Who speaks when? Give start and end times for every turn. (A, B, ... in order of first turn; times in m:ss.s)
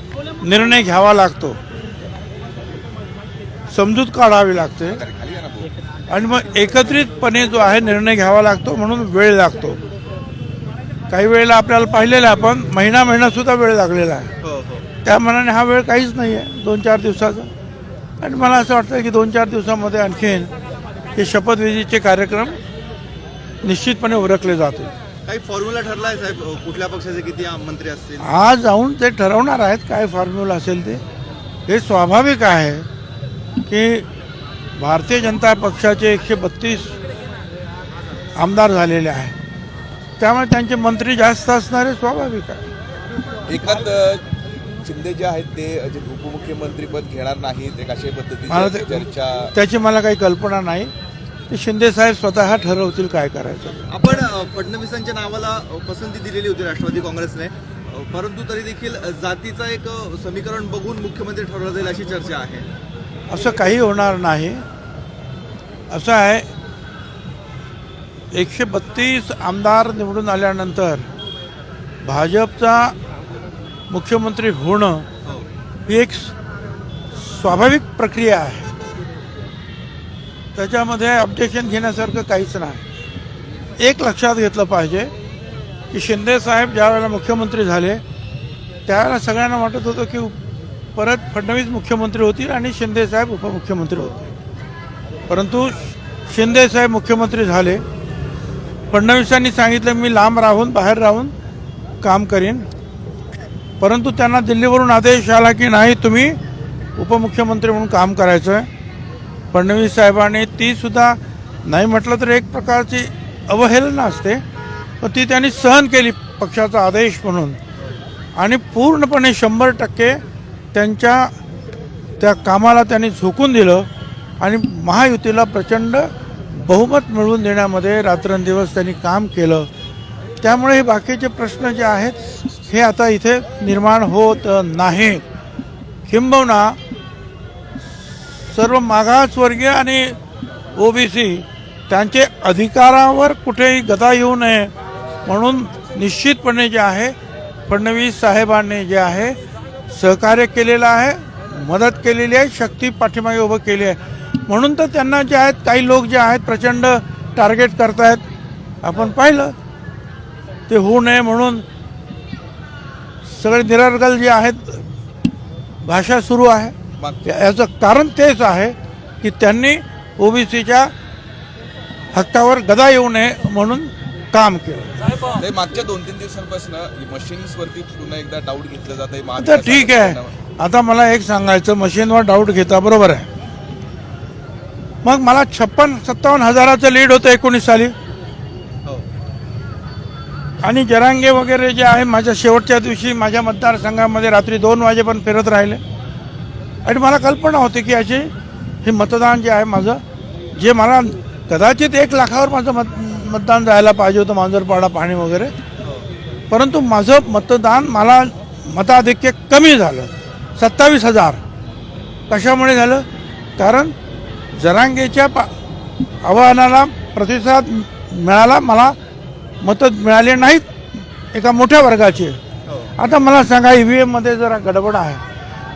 0:00.4-0:01.6 A
0:03.7-0:05.0 A
0:04.8-0:05.7 B
0:06.1-0:09.8 A
0:11.1-0:14.3 A
0:14.4-0:14.8 C
0:15.0-0:17.5 A
0:18.2-0:20.5 A
0:21.1-0:22.6 A
0:23.6-0:24.9 A
0:25.2-0:28.3 C
0:28.2-0:31.0 A
0:31.7-0:32.9 A
0:33.7-0:34.1 A
0:34.8-0:37.0 A
0:38.4-0:39.3 A
0:40.2-0:42.6 A
0:43.5-0:44.2 B
0:44.8-0:49.5 B
0:48.5-0:49.0 A
0:49.5-0:50.9 A
0:51.5-0:53.8 A
0:53.9-1:02.7 C
1:03.3-1:04.6 A
1:05.9-1:06.5 A
1:08.3-1:11.1 A
1:12.0-1:12.9 A
1:13.9-1:15.0 A
1:15.8-1:16.3 A
1:17.1-1:18.7 A
1:20.5-1:22.8 A
1:23.8-1:25.1 A
1:25.9-1:28.0 A
1:28.9-1:30.4 A
1:30.9-1:34.3 A
1:35.3-1:37.8 A
1:38.9-1:41.3 A
1:42.0-1:42.7 A
1:43.8-1:46.4 A
1:47.0-1:48.7 A
1:49.5-1:54.4 A
1:55.0-1:57.6 A
1:58.3-2:00.2 A
2:00.7-2:01.3 A
2:02.2-2:03.9 A
2:04.4-2:09.7 A
2:10.4-2:15.2 A
2:16.1-2:16.8 A
2:18.5-2:20.2 A
2:20.7-2:24.7 A
2:25.2-2:27.1 A
2:27.7-2:29.4 A
2:29.9-2:38.2 A
2:38.8-2:39.5 A
2:40.7-2:41.6 A
2:43.3-2:44.8 A
2:45.8-2:50.9 A
2:47.0-2:47.3 B
2:52.1-2:55.1 A
2:55.3-3:00.3 B
2:59.4-3:03.3 A
3:05.0-3:07.9 A
3:10.6-3:15.8 A
3:16.8-3:18.3 A
3:18.8-3:20.0 A
3:20.5-3:25.5 A
3:26.5-3:31.4 A
3:32.3-3:33.0 A
3:33.6-3:33.9 A
3:34.6-3:35.5 A
3:36.2-3:39.0 A
3:39.6-3:42.4 A
3:42.7-3:42.9 C
3:43.0-3:45.2 A